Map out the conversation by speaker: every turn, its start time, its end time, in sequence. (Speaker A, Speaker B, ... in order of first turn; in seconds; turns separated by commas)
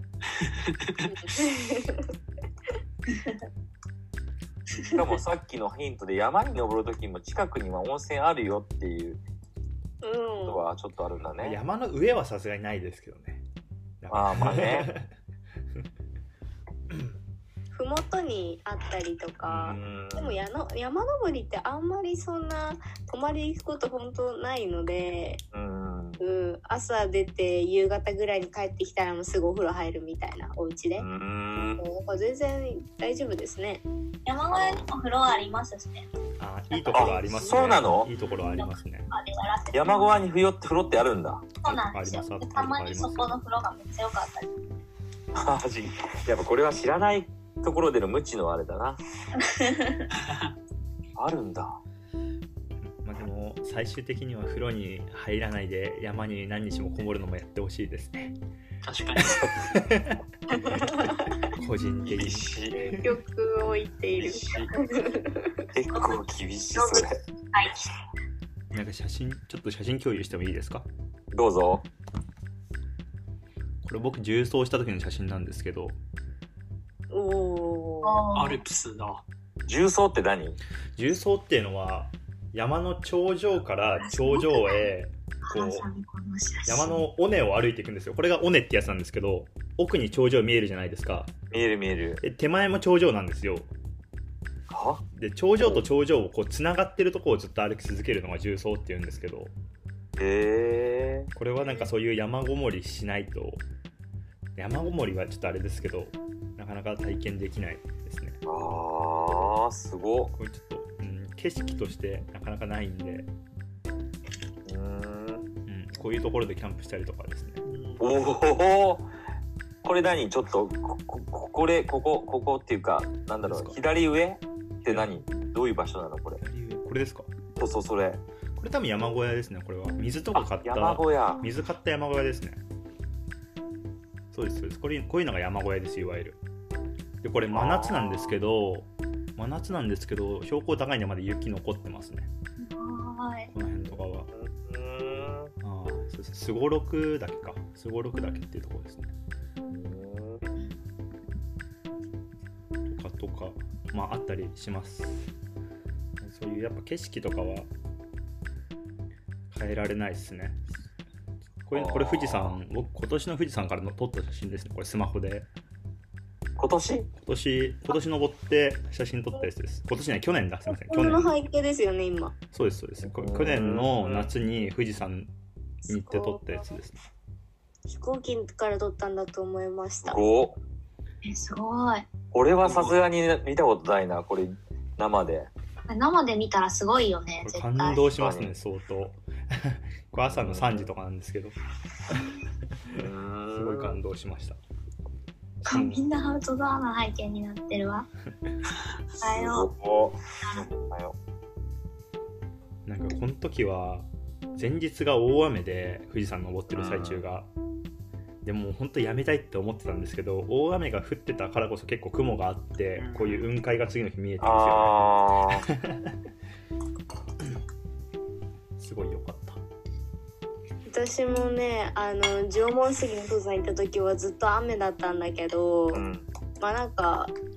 Speaker A: 0.4-1.1, Speaker B: 1.1-2.1, Speaker C: 4.7-9.2, Speaker B: 10.0-10.6, Speaker C: 10.4-11.6, Speaker D: 11.4-13.4, Speaker D: 14.0-15.1, Speaker C: 14.1-14.9, Speaker B: 17.7-25.4, Speaker D: 19.5-19.8, Speaker C: 19.6-20.4, Speaker C: 25.5-26.2, Speaker B: 26.2-31.1, Speaker C: 31.0-31.9, Speaker B: 31.8-33.8, Speaker E: 34.3-36.1, Speaker C: 34.5-34.9, Speaker D: 36.4-39.1, Speaker E: 36.7-37.1, Speaker C: 36.9-38.1, Speaker E: 38.4-40.2, Speaker C: 39.7-41.5, Speaker E: 41.6-44.6, Speaker D: 41.6-43.4, Speaker C: 45.3-49.0, Speaker E: 49.4-50.1, Speaker A: 50.1-50.5, Speaker C: 51.2-51.8, Speaker D: 52.8-58.4, Speaker A: 58.8-59.5, Speaker D: 59.2-63.1, Speaker B: 60.5-61.3, Speaker C: 62.1-63.0, Speaker B: 62.8-65.6, Speaker C: 64.2-64.8, Speaker C: 65.7-67.2, Speaker E: 65.9-66.2, Speaker E: 66.8-67.9, Speaker D: 68.7-70.9, Speaker C: 71.3-71.8, Speaker D: 73.8-76.0, Speaker B: 77.1-78.2, Speaker E: 78.0-78.6, Speaker A: 78.3-79.2, Speaker C: 79.6-80.6, Speaker D: 81.0-85.9, Speaker E: 84.0-84.9, Speaker E: 85.5-87.0, Speaker D: 86.7-91.3, Speaker C: 91.5-92.2, Speaker D: 92.2-93.7, Speaker C: 94.7-95.0, Speaker D: 95.1-99.5, Speaker C: 100.2-101.3, Speaker D: 101.4-103.6, Speaker D: 104.6-108.4, Speaker C: 108.5-110.3, Speaker D: 110.3-113.3, Speaker C: 114.7-115.5, Speaker D: 115.7-117.6, Speaker A: 117.7-118.0, Speaker C: 118.0-119.1, Speaker C: 119.8-126.4, Speaker D: 123.4-123.8, Speaker D: 124.9-125.1, Speaker D: 126.4-127.3, Speaker C: 127.6-128.2, Speaker D: 128.6-132.6, Speaker C: 130.3-131.5, Speaker D: 134.3-136.4, Speaker D: 137.2-142.3, Speaker C: 137.5-138.4, Speaker E: 142.6-143.5, Speaker D: 143.5-144.3, Speaker C: 143.8-145.5, Speaker D: 145.6-149.1, Speaker C: 149.7-150.5, Speaker D: 152.9-155.3, Speaker D: 156.2-157.7, Speaker D: 159.5-160.7, Speaker D: 161.6-165.5, Speaker C: 161.7-162.6, Speaker C: 166.6-167.1, Speaker D: 167.2-171.3, Speaker B: 170.7-172.4, Speaker D: 172.5-175.3, Speaker C: 173.0-174.3, Speaker D: 175.9-176.9, Speaker B: 175.9-176.6, Speaker B: 177.9-180.2, Speaker C: 180.0-180.6, Speaker E: 181.2-182.1, Speaker C: 182.3-185.5, Speaker A: 182.6-183.0, Speaker E: 185.9-188.0, Speaker D: 187.4-191.6, Speaker C: 188.2-188.5, Speaker C: 190.3-190.9, Speaker D: 192.9-194.6, Speaker C: 192.9-194.0, Speaker D: 195.6-196.1, Speaker E: 195.7-198.1, Speaker E: 199.2-199.7, Speaker C: 199.2-201.2, Speaker D: 202.9-207.5, Speaker C: 206.7-207.2, Speaker D: 208.4-215.0, Speaker A: 213.0-213.5, Speaker C: 214.4-215.7, Speaker D: 215.7-216.2, Speaker D: 218.8-219.6, Speaker B: 220.9-226.1, Speaker C: 225.9-226.3, Speaker B: 226.6-227.3